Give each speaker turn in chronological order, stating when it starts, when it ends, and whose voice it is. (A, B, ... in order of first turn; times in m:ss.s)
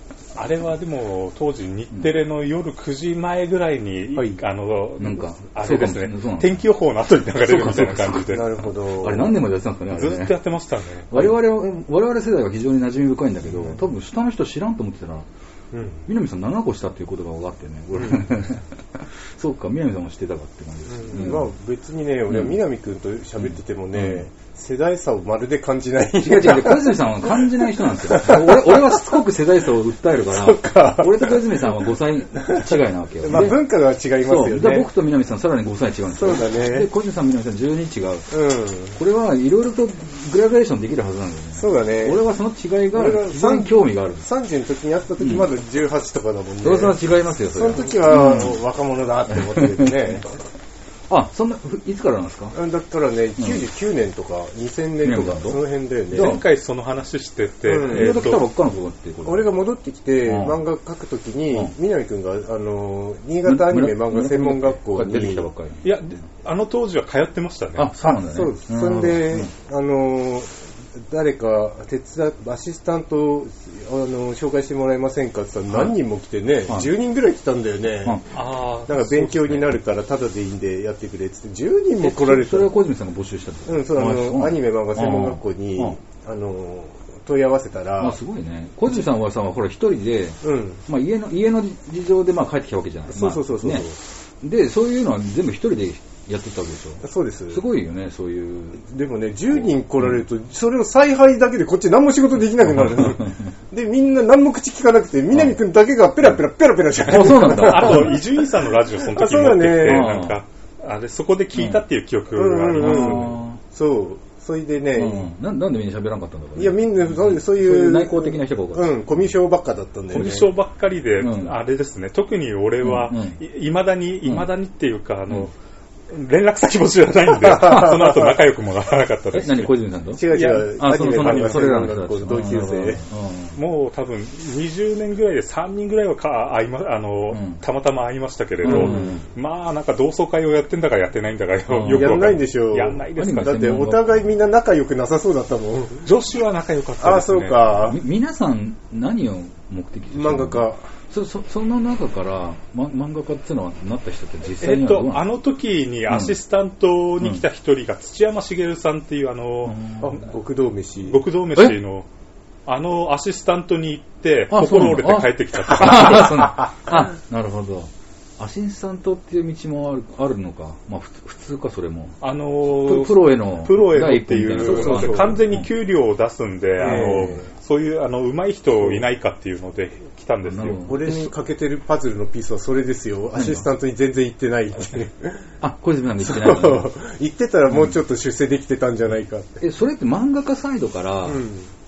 0:00.4-0:08.5 A
0:04.2-0:04.4 B
0:05.0-0:06.6 C
0:07.4-0:08.4 C
0:08.3-0:09.4 B
0:09.0-0:10.4 C
0:09.9-0:11.1 A
0:11.1-0:15.3 C
0:13.5-0:13.8 B
0:15.7-0:16.1 B
0:16.1-0:21.5 C
0:17.9-0:18.3 B
0:20.9-0:29.0 B
0:22.3-0:22.6 C
0:23.9-0:24.3 C
0:26.2-0:33.6 C
0:30.3-0:31.7 B
0:32.4-0:34.9 B
0:34.2-0:38.3 C
0:36.1-0:36.9 B
0:38.3-0:39.0 B
0:39.0-0:44.3 C
0:41.6-0:42.2 B
0:42.9-0:50.3 B
0:45.2-0:45.5 C
0:46.6-0:48.6 C
0:49.4-0:50.2 C
0:51.1-0:52.6 C
0:52.5-0:56.4 B
0:53.4-0:53.6 C
0:55.0-0:55.6 C
0:56.1-0:56.4 C
0:56.1-0:58.4 A
0:57.7-0:58.3 B
0:57.8-0:59.5 C
0:59.2-1:05.5 B
1:00.2-1:00.6 C
1:03.5-1:05.9 C
1:05.8-1:07.9 A
1:07.8-1:09.5 C
1:08.0-1:18.2 B
1:18.3-1:19.6 A
1:18.9-1:22.7 B
1:22.0-1:26.0 C
1:23.7-1:28.2 B
1:28.0-1:33.9 C
1:30.4-1:30.8 B
1:33.1-1:34.0 B
1:34.4-1:38.8 C
1:37.0-1:37.6 B
1:38.8-1:50.2 B
1:42.7-1:43.5 C
1:47.0-1:48.2 C
1:47.1-1:53.3 A
1:49.8-1:50.4 C
1:51.6-1:51.8 C
1:52.3-1:55.3 B
1:52.8-1:53.6 C
1:55.0-1:59.3 C
1:56.6-2:00.5 B
2:00.1-2:05.5 A
2:01.2-2:01.6 C
2:02.8-2:03.4 C
2:06.1-2:09.7 A
2:07.6-2:08.1 C
2:09.3-2:13.6 C
2:10.1-2:13.0 B
2:10.3-2:10.7 A
2:13.6-2:23.6 A
2:17.3-2:17.6 C
2:18.6-2:19.3 C
2:18.7-2:19.2 B
2:21.7-2:22.4 C
2:21.8-2:26.1 B
2:23.2-2:24.3 C
2:26.0-2:27.7 A
2:27.0-2:28.0 B
2:27.8-2:35.3 C
2:30.1-2:30.9 B
2:34.6-2:39.8 A
2:36.1-2:36.3 C
2:39.7-2:40.2 C
2:40.0-2:41.2 B
2:41.0-2:42.1 A
2:42.7-2:46.5 A
2:44.5-2:52.2 C
2:52.2-3:00.8 A
2:52.8-2:55.6 C
2:54.6-2:55.5 B
2:56.8-2:57.5 B
2:56.8-2:57.4 C
3:00.4-3:01.3 C
3:00.8-3:05.4 B
3:03.4-3:03.6 C
3:05.6-3:06.9 C
3:06.2-3:09.6 B
3:09.6-3:11.4 C
3:11.2-3:11.7 B